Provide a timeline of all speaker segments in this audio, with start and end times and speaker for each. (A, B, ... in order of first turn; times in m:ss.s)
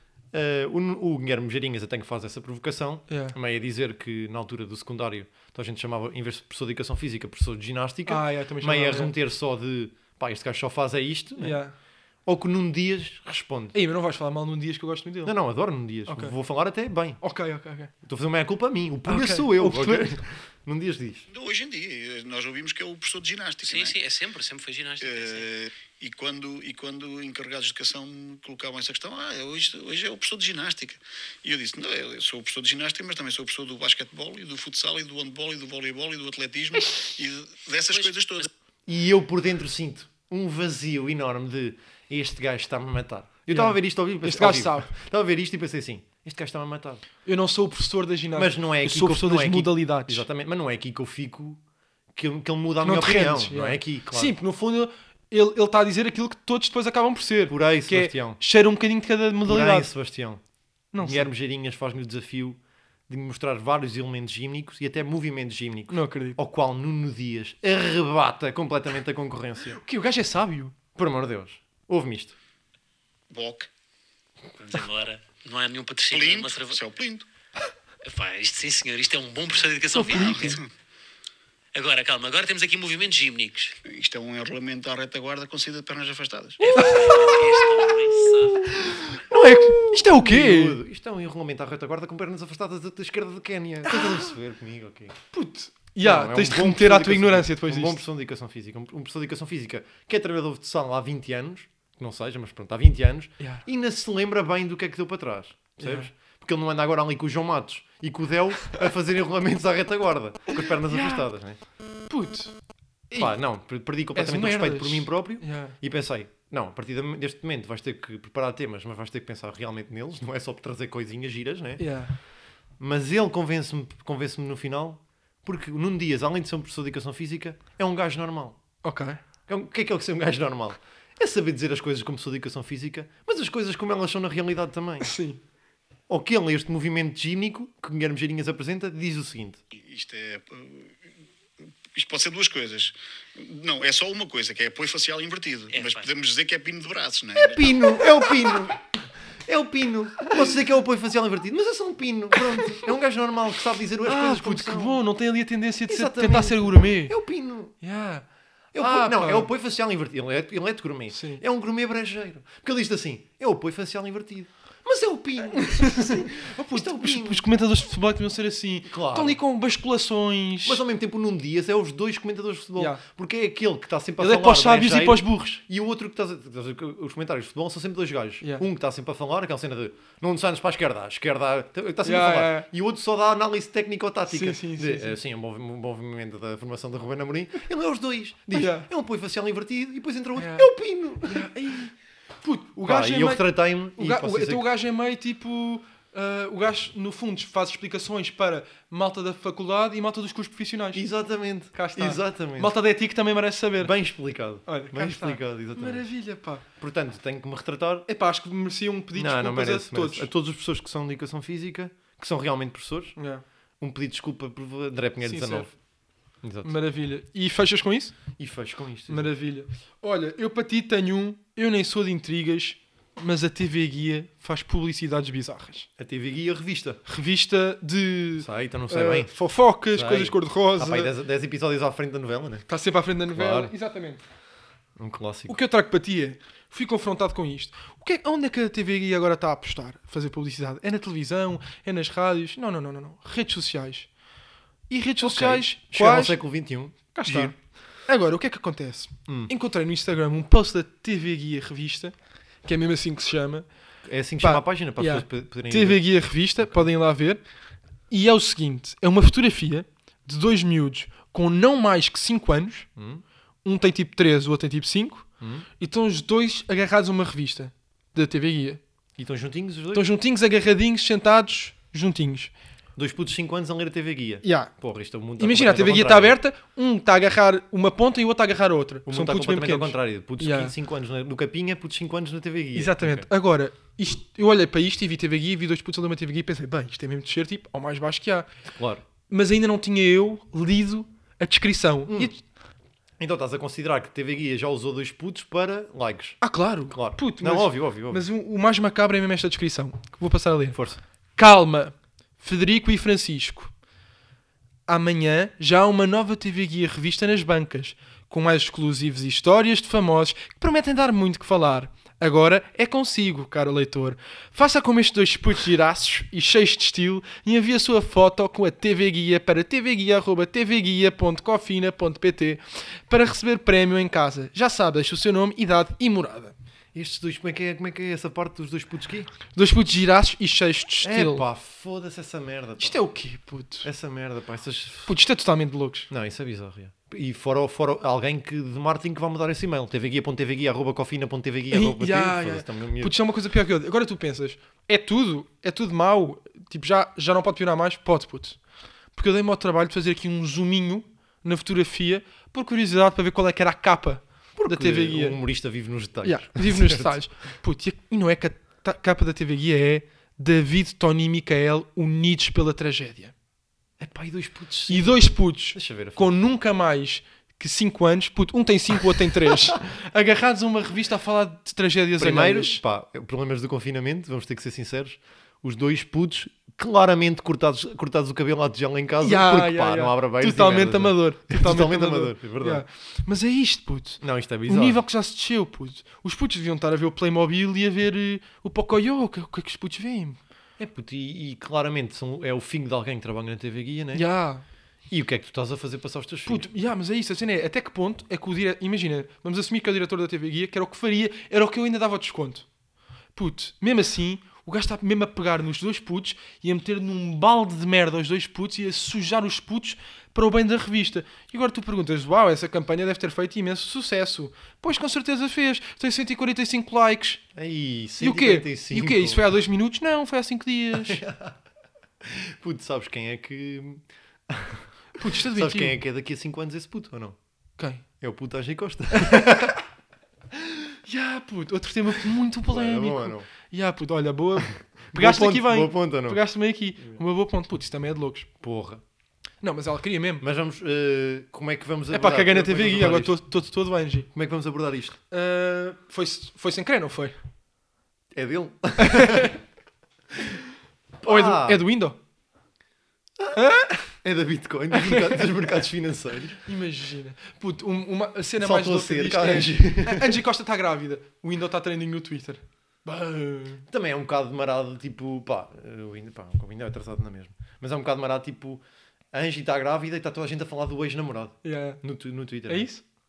0:00.3-0:11.6 A
0:03.1-0:03.4 B
0:08.1-0:09.1 B
0:11.4-0:11.7 B
0:12.2-0:13.7 A
0:13.7-0:15.4 B
0:15.2-0:17.2 A
0:16.0-0:16.3 B
0:17.2-0:17.9 B
0:18.0-0:21.2 A
0:19.0-0:20.2 B
0:21.3-0:24.0 C
0:23.6-0:25.5 D
0:25.0-0:38.5 C
0:37.9-0:38.4 D
0:38.9-0:47.0 A
0:43.5-0:44.9 B
0:47.2-0:50.2 B
0:48.3-0:51.6 A
0:52.1-0:54.3 A
0:52.8-0:59.9 B
0:57.5-0:58.4 A
0:59.4-1:00.4 A
1:00.9-1:01.3 B
1:01.0-1:09.8 A
1:05.9-1:06.4 B
1:09.7-1:10.7 B
1:11.0-1:12.4 A
1:13.3-1:13.7 C
1:14.6-1:16.8 D
1:16.1-1:17.2 C
1:18.0-1:20.6 D
1:20.0-1:20.7 C
1:21.7-1:23.7 D
1:23.8-1:26.9 C
1:26.6-1:28.8 D
1:26.7-1:27.5 B
1:28.7-1:30.8 B
1:29.3-1:35.2 A
1:33.8-1:34.3 B
1:35.3-1:38.0 B
1:36.0-1:51.6 A
1:45.8-1:46.1 B
1:50.5-1:51.3 B
1:52.1-1:52.6 B
1:53.1-1:53.4 B
1:53.2-2:01.9 A
1:54.1-1:55.8 B
2:01.8-2:02.2 B
2:02.8-2:08.6 A
2:08.8-2:09.2 B
2:09.5-2:15.1 A
2:15.0-2:15.4 B
2:16.1-2:19.6 A
2:19.7-2:21.0 C
2:21.9-2:27.7 C
2:25.7-2:26.1 D
2:27.4-2:28.8 A
2:29.4-2:35.0 A
2:34.0-2:37.2 B
2:35.9-2:37.7 A
2:37.8-2:39.5 B
2:38.7-2:47.4 A
2:41.1-2:41.4 B
2:45.5-2:50.8 B
2:48.8-2:49.4 A
2:50.6-3:11.5 A
2:52.8-2:53.0 B
2:54.2-2:55.6 B
2:58.4-2:58.7 B
3:02.0-3:02.7 B
3:04.3-3:05.2 B
3:08.5-3:08.9 B
3:10.4-3:21.0 B
3:12.8-3:14.7 A
3:20.9-3:22.7 A
3:21.7-3:23.9 B
3:23.8-3:26.1 A
3:24.6-3:26.6 B
3:26.8-3:28.1 A
3:28.1-3:30.3 B
3:29.1-3:33.2 A
3:33.2-3:33.4 B
3:33.8-3:35.7 A
3:35.2-3:35.7 B
3:36.4-3:36.7 A
3:36.6-3:38.2 B
3:38.4-3:39.3 A
3:39.1-3:45.9 B
3:46.0-3:47.0 A
3:47.0-3:51.1 B
3:48.4-3:52.7 A
3:52.7-3:54.2 B
3:53.3-3:53.7 A
3:55.0-3:55.6 A
3:55.5-4:04.1 B
4:04.9-4:06.4 B
4:05.2-4:07.6 A
4:07.1-4:13.7 B
4:09.3-4:09.5 A
4:14.0-4:16.0 A
4:14.4-4:17.5 B
4:18.1-4:22.9 B
4:23.0-4:23.2 A
4:23.6-4:28.8 B
4:25.4-4:25.7 A
4:29.2-4:30.1 A
4:29.9-4:32.5 B
4:33.0-4:36.4 A
4:34.4-4:34.7 B
4:35.4-4:40.7 B
4:39.0-4:43.3 A
4:42.7-4:48.5 B
4:48.6-4:49.0 A
4:49.3-4:52.4 B
4:52.1-4:52.3 A
4:53.2-4:58.2 A
4:56.4-5:00.8 B
5:00.7-5:01.0 A
5:01.4-5:03.7 B
5:04.9-5:26.6 B
5:26.9-5:29.3 A
5:29.5-5:31.4 B
5:31.0-5:33.0 A
5:32.8-5:33.9 B
5:33.8-5:35.1 A
5:35.0-5:36.1 B
5:36.1-5:43.2 A
5:41.7-5:48.6 B
5:49.1-5:55.4 B
5:54.6-5:57.2 A
5:56.2-6:03.3 B
6:04.0-6:06.3 A
6:04.9-6:12.8 B
6:12.2-6:22.8 A
6:19.2-6:30.4 B
6:24.2-6:25.0 A
6:30.8-6:34.3 A
6:34.1-6:34.6 B
6:35.1-6:36.7 A
6:36.4-6:42.7 B
6:43.3-6:57.4 B
6:57.5-6:59.4 A
6:58.2-7:01.2 B
7:01.0-7:01.6 A
7:02.2-7:07.4 A
7:05.2-7:06.0 B
7:07.8-7:08.0 B
7:08.2-7:09.7 A
7:09.1-7:09.8 B
7:11.0-7:18.5 B
7:12.7-7:13.5 A
7:14.7-7:16.4 A
7:18.6-7:19.0 A
7:19.6-7:20.4 B
7:20.4-7:23.4 A
7:22.1-7:24.3 B
7:24.3-7:25.2 A
7:25.3-7:27.4 B
7:28.3-7:29.5 A
7:29.0-7:29.5 B
7:31.2-7:31.8 A
7:31.2-7:32.2 B
7:33.5-7:34.2 B
7:34.1-7:36.6 A
7:34.9-7:35.5 B
7:36.6-7:43.8 B
7:38.6-7:40.4 A
7:43.9-7:53.0 A
7:51.6-7:52.0 B
7:52.6-7:53.0 B